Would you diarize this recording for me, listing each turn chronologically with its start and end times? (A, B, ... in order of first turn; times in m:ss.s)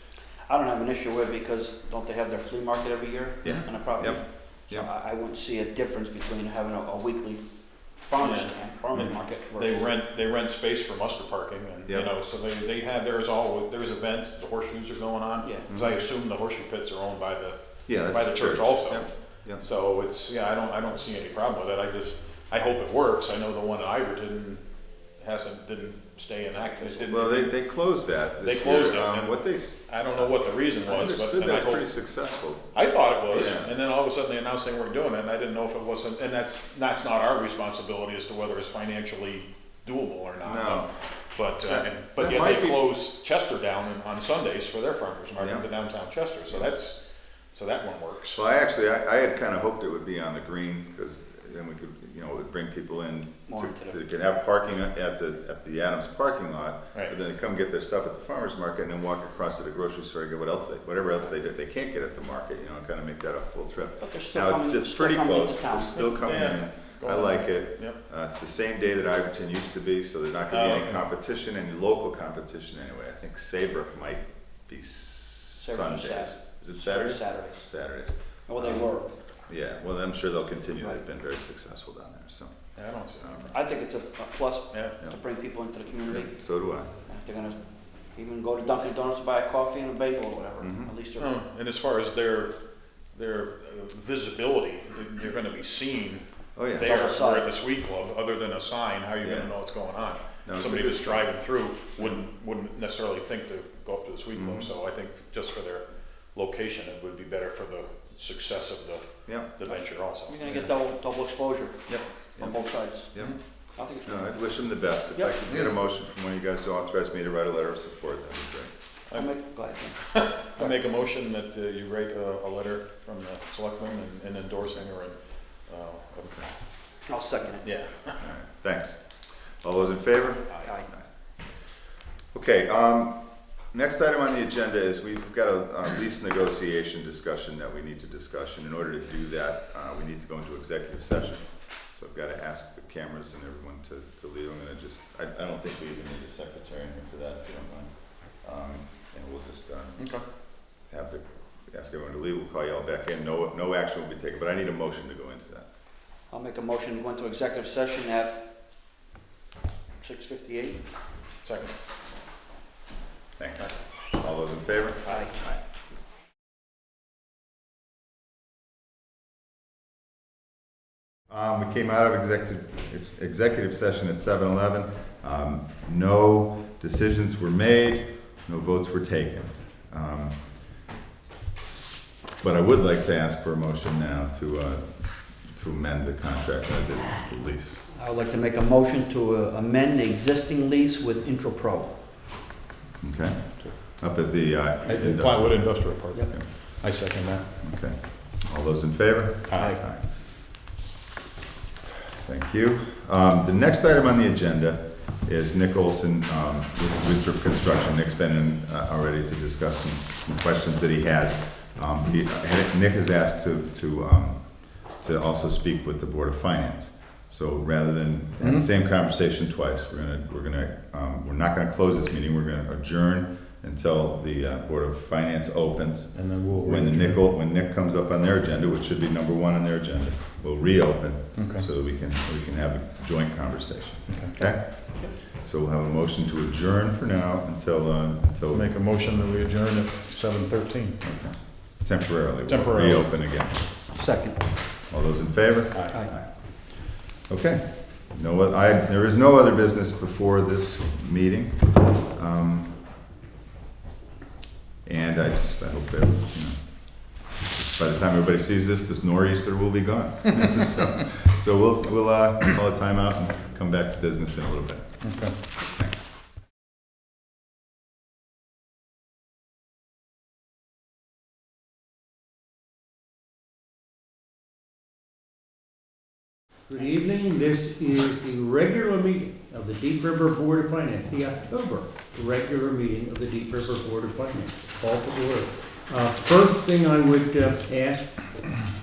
0:00.5-0:09.9 A
0:03.4-0:04.9 B
0:08.2-0:24.6 C
0:15.7-0:16.0 B
0:17.9-0:19.6 B
0:25.2-0:27.5 C
0:26.7-0:27.1 A
0:27.1-0:32.7 B
0:28.4-0:31.9 C
0:32.7-0:48.4 C
0:33.3-0:33.7 B
0:40.4-0:40.9 B
0:41.7-0:42.8 B
0:45.4-0:45.6 B
0:48.3-1:18.9 B
0:53.5-0:54.0 A
1:04.0-1:06.1 A
1:05.9-1:08.0 C
1:10.5-1:11.0 C
1:15.6-1:17.7 A
1:18.5-1:19.1 A
1:19.5-1:22.5 B
1:22.8-1:23.4 C
1:23.2-1:23.5 B
1:23.5-1:26.3 A
1:24.7-1:25.0 C
1:26.1-1:26.9 B
1:27.0-1:27.6 A
1:28.1-1:31.3 A
1:30.6-1:30.9 B
1:31.2-1:32.5 C
1:33.1-1:36.2 C
1:36.6-1:37.0 B
1:36.8-1:50.4 C
1:36.8-1:37.5 A
1:39.2-1:39.5 B
1:40.4-1:41.3 B
1:44.3-1:44.7 B
1:49.2-1:49.5 B
1:49.6-1:51.8 A
1:51.9-1:53.4 B
1:52.4-1:53.1 A
1:53.7-1:54.5 A
1:54.0-1:58.7 B
1:59.1-2:00.8 A
2:00.1-2:05.2 C
2:05.7-2:06.3 C
2:07.1-2:07.7 A
2:07.6-2:08.2 C
2:08.2-2:09.0 B
2:09.6-2:11.0 B
2:12.3-2:13.2 B
2:13.7-2:30.0 B
2:30.0-2:30.2 C
2:30.9-2:35.7 B
2:36.3-2:38.4 A
2:40.0-2:40.8 A
2:41.4-2:41.7 C
2:43.4-2:45.6 B
2:45.1-2:45.3 A
2:51.3-3:00.3 B
3:02.4-3:07.8 B
3:07.9-3:11.9 A
3:13.0-3:15.8 B
3:14.8-3:17.4 C
3:17.6-3:20.0 B
3:19.5-3:19.8 C
3:22.2-3:58.8 B
3:46.1-3:47.2 C
3:51.4-3:51.6 C
3:58.5-4:01.0 C
4:01.0-4:03.6 B
4:02.5-4:03.1 C
4:03.9-4:04.4 A
4:04.9-4:06.3 B
4:05.7-4:06.0 C
4:07.3-4:12.8 B
4:14.8-4:25.0 B
4:25.0-4:25.3 C
4:25.6-4:26.0 B
4:36.7-4:48.3 D